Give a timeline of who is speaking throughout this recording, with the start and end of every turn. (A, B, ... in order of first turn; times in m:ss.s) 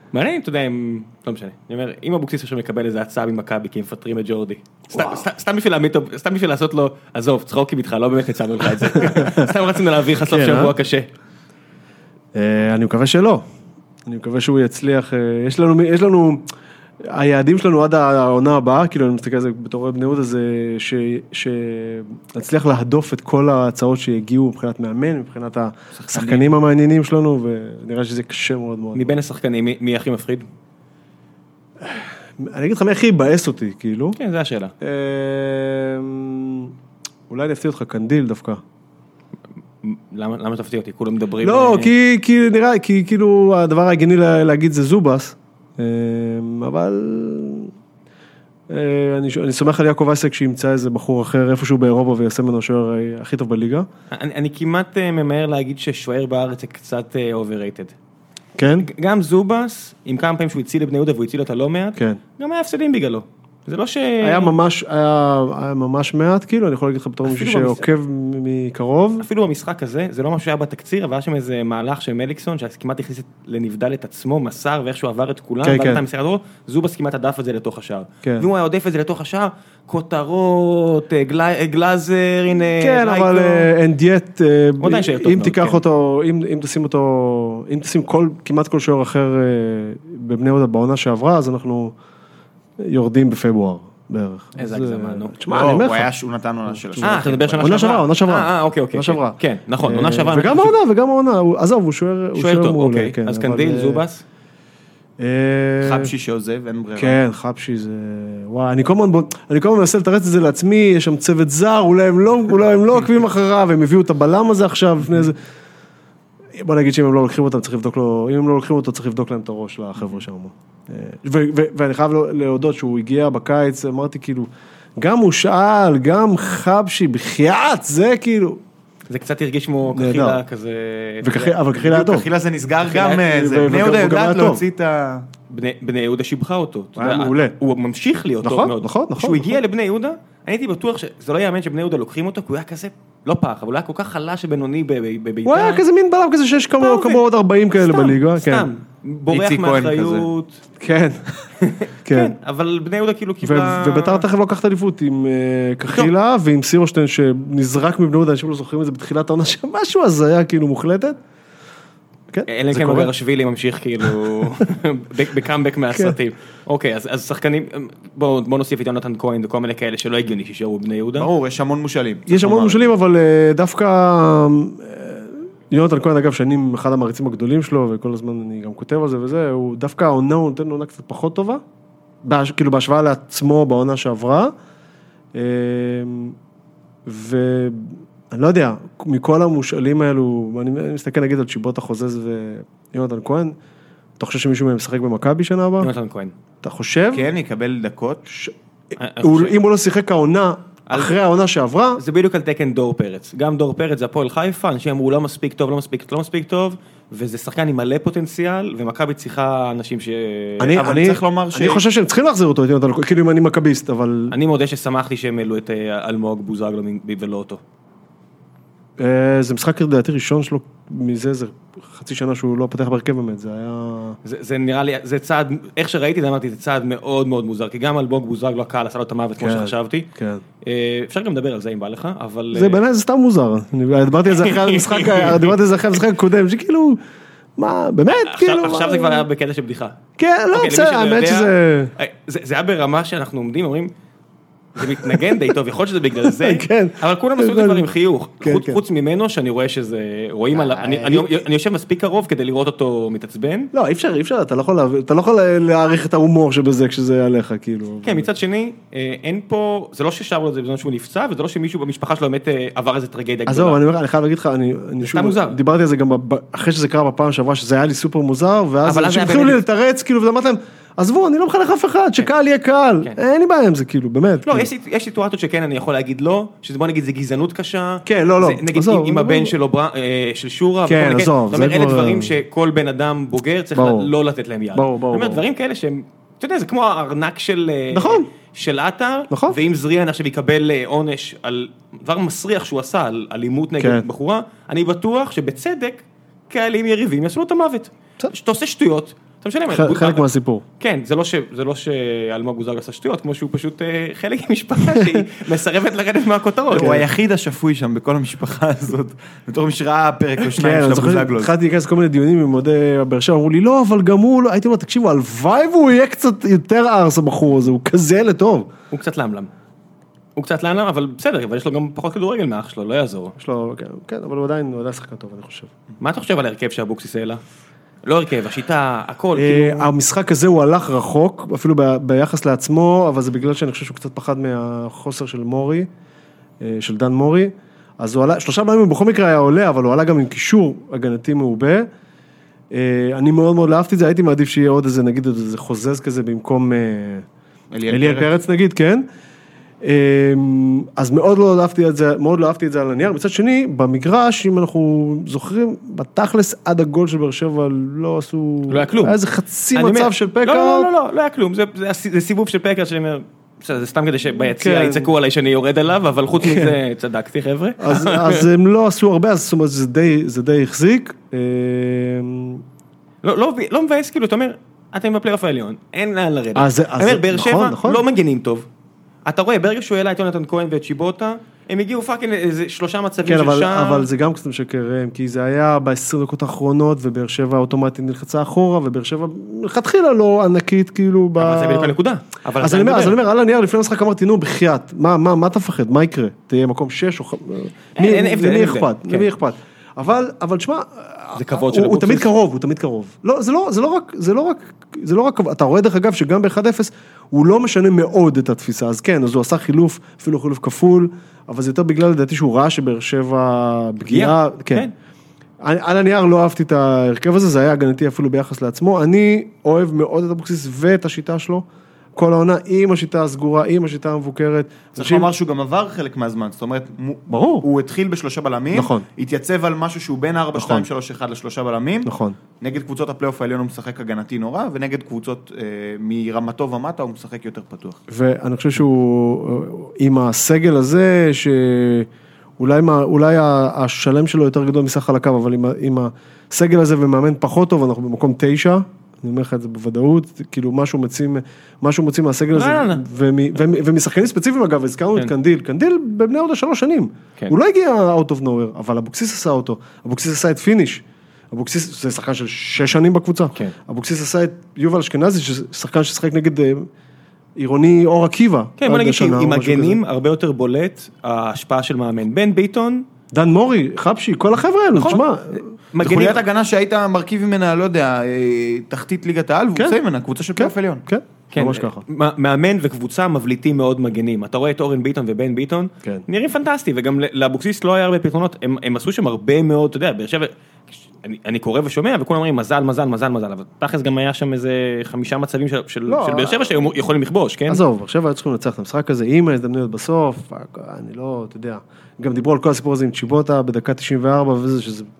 0:00.1-0:11.1 A
0:09.0-0:09.5 B
0:10.3-0:10.7 B
0:12.3-0:13.4 B
0:14.1-0:16.5 B
0:17.0-0:29.1 B
0:28.9-0:30.5 A
0:31.8-0:34.2 B
0:34.2-0:34.7 A
0:34.8-0:36.7 B
0:37.3-0:38.6 B
0:39.8-0:41.9 A
0:41.4-0:47.7 B
0:48.7-0:53.9 B
0:54.1-0:57.9 A
0:58.6-0:58.9 B
0:58.8-1:04.5 A
1:04.2-1:09.3 B
1:07.2-1:07.9 A
1:09.2-1:23.7 A
1:15.6-1:16.0 B
1:22.8-1:31.9 B
1:24.8-1:25.8 A
1:32.8-1:36.1 B
1:34.6-1:35.6 A
1:35.5-1:37.7 C
1:36.7-1:44.0 B
1:37.0-1:40.8 A
1:42.4-1:44.2 A
1:45.2-1:46.1 B
1:45.8-1:47.2 C
1:47.0-1:55.4 B
1:56.5-2:08.6 B
2:09.1-2:11.6 A
2:09.9-2:10.4 B
2:11.2-2:12.3 B
2:11.8-2:15.2 C
2:12.8-2:13.2 A
2:13.1-2:14.6 B
2:15.5-2:25.8 A
2:17.0-2:17.6 B
2:18.4-2:19.6 B
2:25.5-2:28.7 B
2:26.8-2:27.2 A
2:27.8-2:30.6 A
2:29.3-2:30.3 C
2:30.8-2:31.2 B
2:31.6-2:34.2 A
2:32.0-2:32.3 B
2:33.4-2:41.2 B
2:42.3-2:43.1 B
2:42.5-2:51.3 A
2:51.2-2:52.9 C
2:52.3-3:01.6 B
3:02.2-3:04.5 B
3:05.3-3:06.4 B
3:07.0-3:13.6 B
3:14.2-3:15.9 B
3:15.8-3:16.3 A
3:16.6-3:17.3 B
3:17.1-3:18.2 C
3:18.2-3:18.6 B
3:19.0-3:19.6 A
3:19.2-3:22.0 B
3:20.9-3:21.2 A
3:22.0-3:30.8 A
3:30.6-3:34.4 B
3:30.7-3:31.8 C
3:34.3-3:37.6 A
3:39.0-3:44.2 B
3:44.2-3:50.1 A
3:49.4-3:50.4 B
3:50.6-3:52.8 A
3:52.5-3:57.0 B
3:54.3-3:55.6 A
3:57.6-3:59.2 B
3:58.1-4:00.0 A
4:00.2-4:01.9 B
4:00.5-4:03.9 A
4:04.8-4:13.7 A
4:04.8-4:05.6 B
4:06.2-4:07.9 B
4:08.4-4:08.8 B
4:10.6-4:11.2 C
4:13.7-4:18.3 B
4:18.0-4:23.8 A
4:23.5-4:34.7 B
4:25.0-4:25.6 A
4:28.8-4:29.6 A
4:34.4-5:00.2 A
4:38.0-4:39.6 B
4:40.9-4:42.3 B
4:43.8-4:44.1 B
4:44.8-4:45.4 B
4:47.9-4:48.3 B
4:49.3-4:49.6 B
4:53.8-4:54.1 B
4:59.7-5:00.6 B
5:00.8-5:07.0 A
5:04.9-5:05.2 B
5:06.7-5:11.5 C
5:10.5-5:18.7 B
5:18.9-5:19.5 A
5:20.4-5:23.4 A
5:23.4-5:25.7 B
5:26.0-5:27.4 A
5:28.0-5:29.9 A
5:29.3-5:35.9 B
5:36.6-5:41.9 B
5:42.7-5:47.2 B
5:47.7-5:48.3 C
5:47.9-5:49.0 B
5:49.8-6:00.9 B
5:58.7-5:59.2 A
5:59.7-6:08.5 A
6:04.5-6:05.1 B
6:06.4-6:06.8 B
6:07.8-6:12.6 B
6:13.2-6:18.7 A
6:16.5-6:18.0 B
6:19.2-6:24.1 A
6:23.2-6:32.0 B
6:31.4-6:33.2 A
6:32.6-6:54.9 B
6:38.0-6:39.3 A
6:41.3-6:42.3 A
6:54.1-6:54.9 A
6:55.6-7:05.3 B
7:05.0-7:18.0 C
7:07.3-7:07.6 B
7:08.7-7:09.1 B
7:10.5-7:10.9 B
7:12.1-7:12.4 B
7:18.1-7:46.9 B
7:32.5-7:33.0 A
7:47.6-7:50.0 B
7:48.8-7:53.1 A
7:53.3-7:55.6 B
7:55.0-7:55.2 A
7:55.9-7:56.4 A
7:56.0-8:01.0 C
8:00.6-8:02.0 B
8:01.5-8:17.8 A
8:16.1-8:16.8 B
8:17.7-8:25.1 B